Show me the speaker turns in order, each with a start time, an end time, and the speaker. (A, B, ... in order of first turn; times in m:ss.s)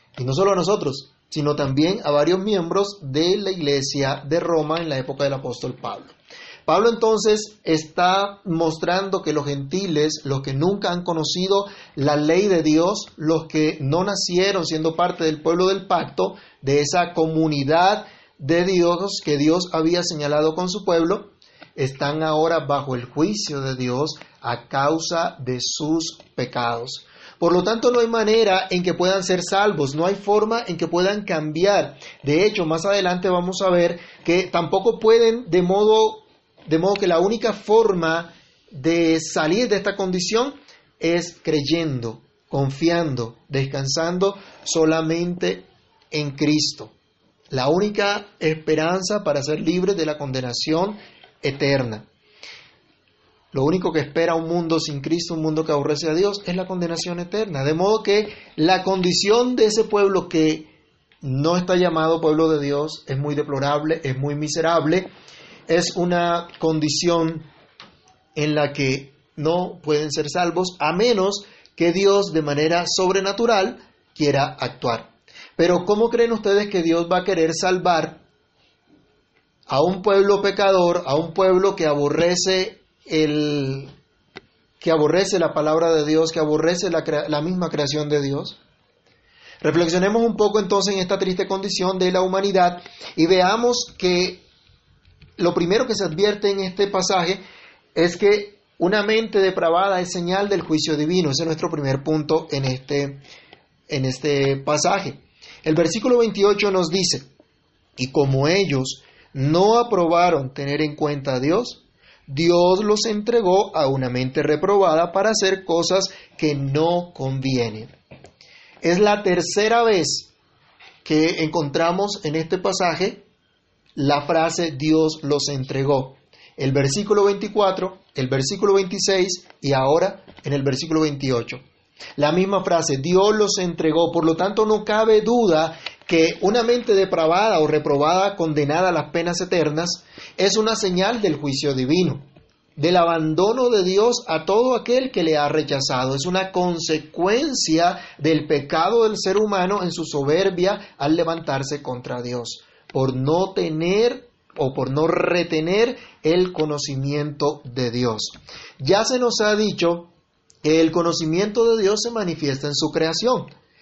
0:00.2-0:46.9 A
0:47.5-0:52.1 A
0:53.5-1:00.7 A
1:01.2-1:05.1 A
1:05.7-1:07.5 A
1:08.4-1:18.2 A
1:19.7-1:23.9 A
1:24.8-1:28.6 A
1:29.6-1:34.4 A
1:35.4-1:37.4 A
1:38.0-1:43.2 A
1:43.9-1:47.3 A
1:48.0-1:58.0 A
1:58.8-2:00.3 A
2:01.0-2:03.2 A
2:04.0-2:11.6 A
2:12.2-2:22.3 A
2:22.8-2:40.1 A
2:40.6-2:43.5 A